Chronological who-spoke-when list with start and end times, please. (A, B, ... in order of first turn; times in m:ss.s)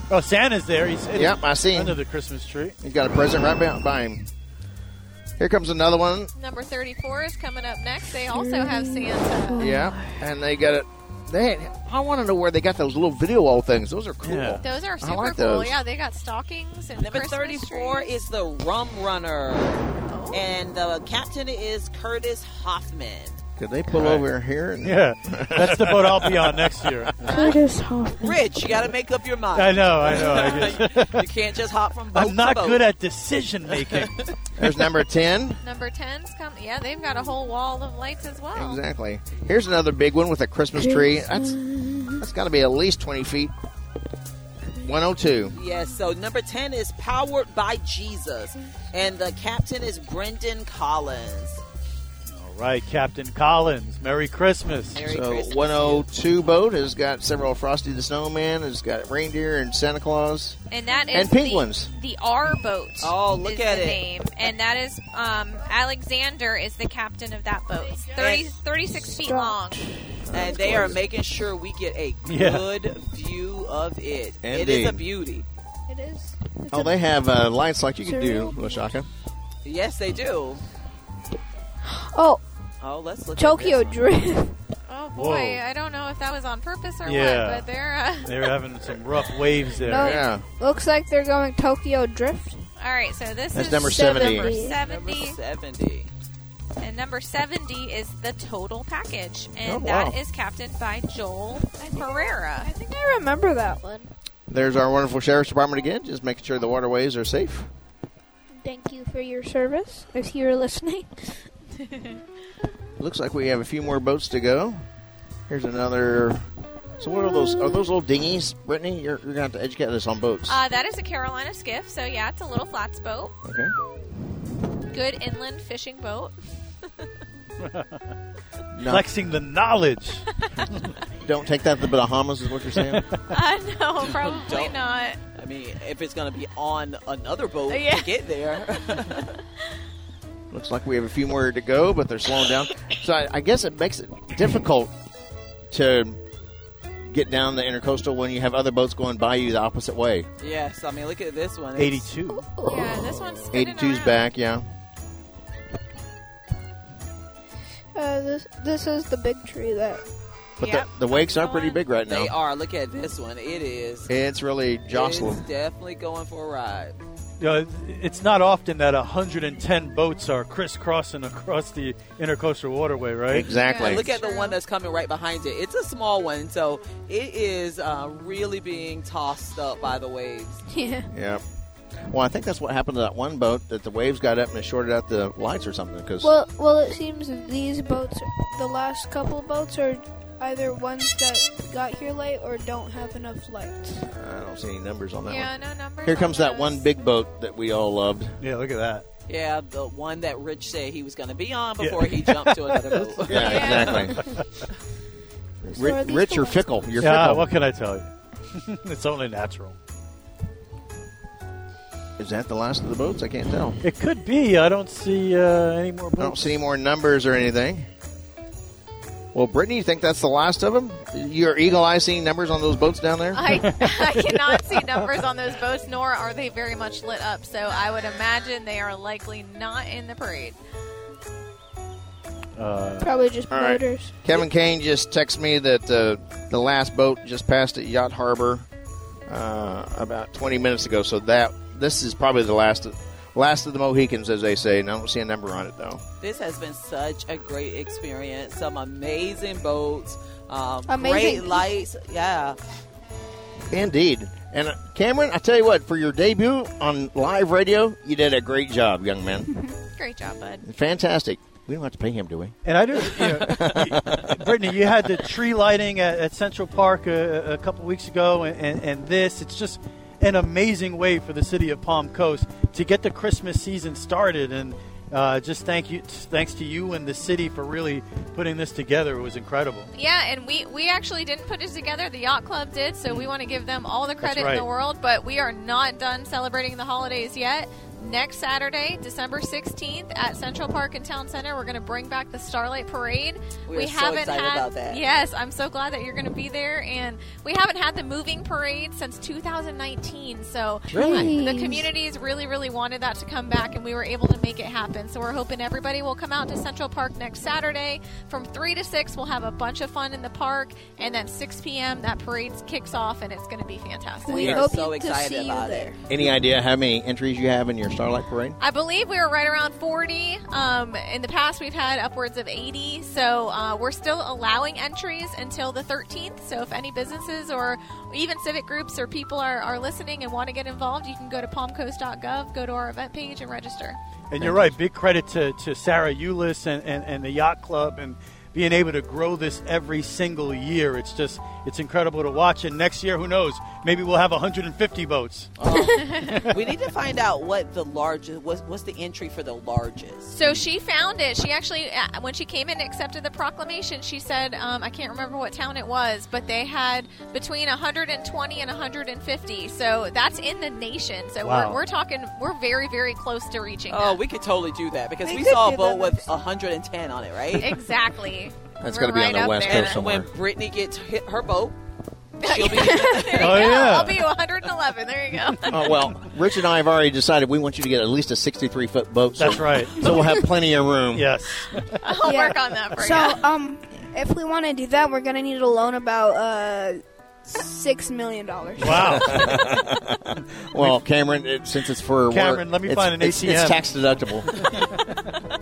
0:00.1-0:02.8 A
0:01.1-0:02.0 B
0:02.8-0:04.3 B
0:05.4-0:06.3 B
0:06.4-0:09.7 C
0:08.3-0:10.3 D
0:09.6-0:15.8 B
0:14.2-0:14.6 A
0:14.6-0:18.2 C
0:17.0-0:23.4 E
0:20.1-0:20.4 C
0:23.6-0:26.8 B
0:23.9-0:24.3 A
0:24.8-0:27.3 A
0:27.3-0:27.6 C
0:27.3-0:28.7 D
0:28.2-0:32.9 E
0:29.5-0:31.3 A
0:32.1-0:34.2 A
0:33.9-0:34.3 E
0:34.6-0:35.6 B
0:35.6-0:38.8 C
0:38.5-0:41.6 B
0:40.7-0:42.2 D
0:42.2-0:43.5 B
0:44.7-0:45.6 B
0:45.5-0:51.6 E
0:52.3-0:55.0 A
0:54.9-0:56.2 E
0:55.0-1:00.6 B
1:00.7-1:09.8 C
1:00.8-1:01.3 D
1:01.1-1:01.9 B
1:03.0-1:04.0 E
1:07.7-1:10.9 D
1:08.2-1:08.5 E
1:10.3-1:11.0 B
1:10.3-1:15.4 E
1:12.2-1:12.7 A
1:14.4-1:15.0 B
1:15.9-1:17.4 D
1:16.7-1:19.1 B
1:18.0-1:18.9 D
1:19.6-1:20.6 E
1:21.9-1:22.4 D
1:22.8-1:24.0 E
1:23.4-1:24.5 D
1:24.9-1:28.5 C
1:25.2-1:25.6 A
1:27.0-1:27.6 A
1:28.2-1:30.2 A
1:29.8-1:32.6 D
1:30.0-1:30.4 B
1:32.8-1:35.4 C
1:33.5-1:34.5 B
1:33.7-1:34.8 D
1:34.8-1:36.1 E
1:36.8-1:42.7 C
1:39.6-1:40.2 B
1:41.8-1:44.1 D
1:44.5-1:47.7 B
1:48.6-1:51.4 D
1:51.8-1:52.2 C
1:53.0-1:54.8 B
1:55.5-1:56.4 B
1:57.0-2:00.6 B
2:00.5-2:03.3 C
2:03.4-2:03.7 B
2:04.9-2:06.9 C
2:07.6-2:08.0 A
2:08.7-2:09.1 B
2:08.9-2:10.8 A
2:11.2-2:13.1 B
2:12.8-2:13.2 A
2:13.3-2:15.2 C
2:14.0-2:14.8 E
2:15.3-2:19.3 E
2:17.7-2:18.1 C
2:20.5-2:24.9 B
2:25.7-2:26.2 B
2:27.1-2:30.3 B
2:30.4-2:32.1 E
2:31.8-2:32.4 A
2:32.3-2:33.4 D
2:32.6-2:34.2 C
2:33.5-2:34.6 B
2:37.9-2:40.0 D
2:40.6-2:41.8 C
2:40.6-2:42.3 B
2:42.0-2:44.1 E
2:44.1-2:45.4 B
2:44.9-2:47.0 E
2:47.4-2:53.5 A
2:53.3-2:54.1 B
2:53.6-2:54.6 C
2:53.7-3:00.6 E
3:00.7-3:01.1 D
3:01.1-3:01.4 B
3:02.1-3:06.3 B
3:06.2-3:14.0 D
3:14.1-3:15.5 B
3:15.2-3:16.8 C
3:16.0-3:18.4 B
3:18.4-3:19.0 A
3:19.3-3:23.8 E
3:21.8-3:24.6 A
3:23.3-3:24.2 B
3:23.4-3:24.1 C
3:25.6-3:27.5 B
3:25.7-3:26.7 D
3:27.0-3:29.8 A
3:32.2-3:33.8 B
3:33.8-3:36.6 A
3:36.2-3:37.9 B
3:39.3-3:43.4 B
3:43.3-3:50.6 C
3:43.5-3:45.1 A
3:52.6-3:53.1 A
3:53.0-3:54.4 D
3:53.5-3:58.6 B
3:59.3-4:06.0 B
4:06.2-4:12.6 E
4:10.8-4:11.7 D
4:13.7-4:19.5 B
4:19.5-4:19.7 D
4:20.0-4:20.6 C
4:20.6-4:24.5 B
4:22.6-4:39.9 A
4:39.9-5:14.6 C
4:44.2-4:44.7 A
4:53.7-4:55.0 E
5:00.9-5:01.3 B
5:00.9-5:01.9 D
5:14.2-5:16.0 D
5:14.3-5:16.2 E
5:16.1-5:18.6 B
5:18.6-5:34.0 C
5:34.3-5:45.6 A
5:34.4-5:34.8 B
5:45.6-5:50.4 E
5:45.7-5:46.0 D
5:46.0-5:46.4 C
5:46.3-5:46.5 A
5:50.3-6:04.2 C
6:01.4-6:01.8 A
6:03.9-6:07.7 E
6:05.2-6:06.3 D
6:07.5-6:10.0 C
6:08.8-6:10.3 B
6:09.6-6:11.7 E
6:12.4-6:13.8 E
6:12.4-6:16.0 C
6:13.3-6:14.2 A
6:15.7-6:21.3 B
6:19.4-6:20.1 A
6:20.0-6:20.4 D
6:21.1-6:22.0 A
6:22.0-6:23.4 C
6:22.2-6:29.4 D
6:28.8-6:29.5 A
6:29.0-6:34.5 B
6:32.3-6:33.8 A
6:34.6-6:35.2 A